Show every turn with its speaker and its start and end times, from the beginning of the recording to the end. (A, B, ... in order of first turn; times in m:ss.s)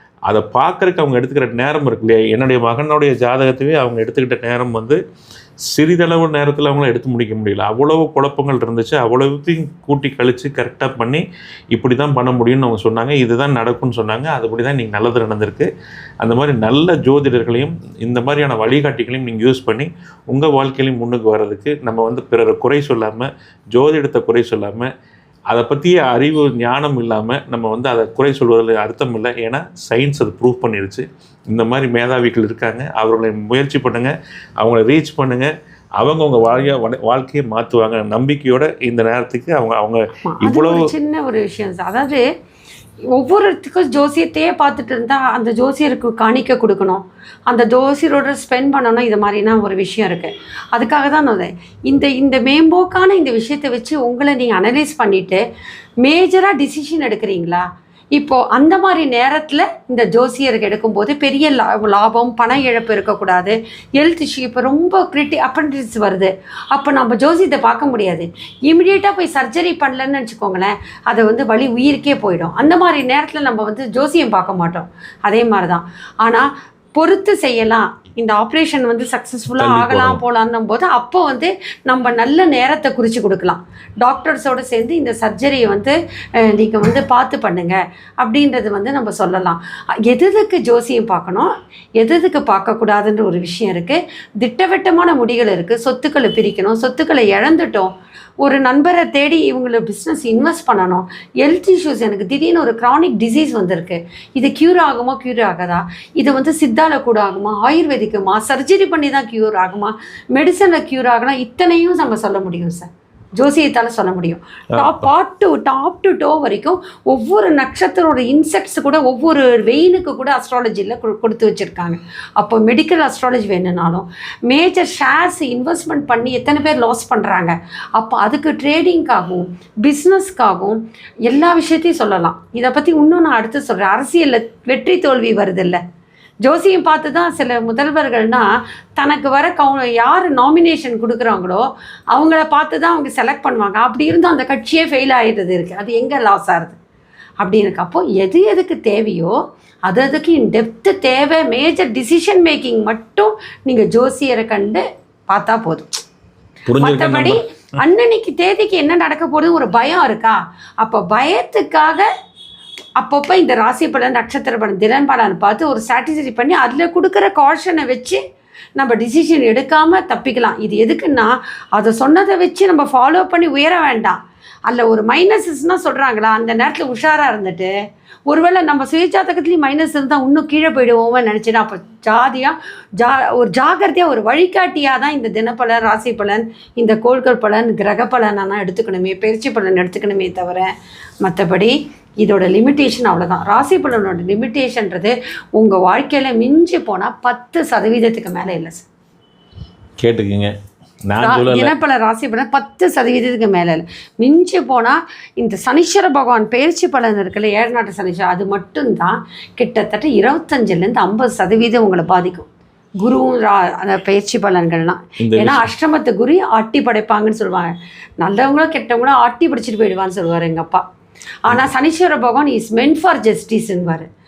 0:00.3-0:05.0 A
0:05.7-0:15.7 A
0:16.2-0:24.9 A
0:25.5-0:40.9 A
0:40.2-0:42.2 B
0:43.2-0:55.4 B
0:56.0-1:37.9 B
1:19.6-1:20.2 A
1:38.4-1:52.9 B
1:53.4-2:15.8 B
1:54.7-1:55.1 A
2:16.4-2:26.8 B
2:27.4-2:29.3 B
2:29.9-2:35.9 B
2:36.7-2:37.4 A
2:36.8-2:42.1 B
2:43.0-2:48.2 B
2:48.8-2:57.7 B
2:58.3-3:10.7 B
3:11.2-3:18.9 B
3:20.0-3:20.5 A
3:21.1-3:21.7 A
3:21.2-3:32.5 B
3:33.0-3:40.8 B
3:35.2-3:35.7 A
3:41.4-3:44.1 B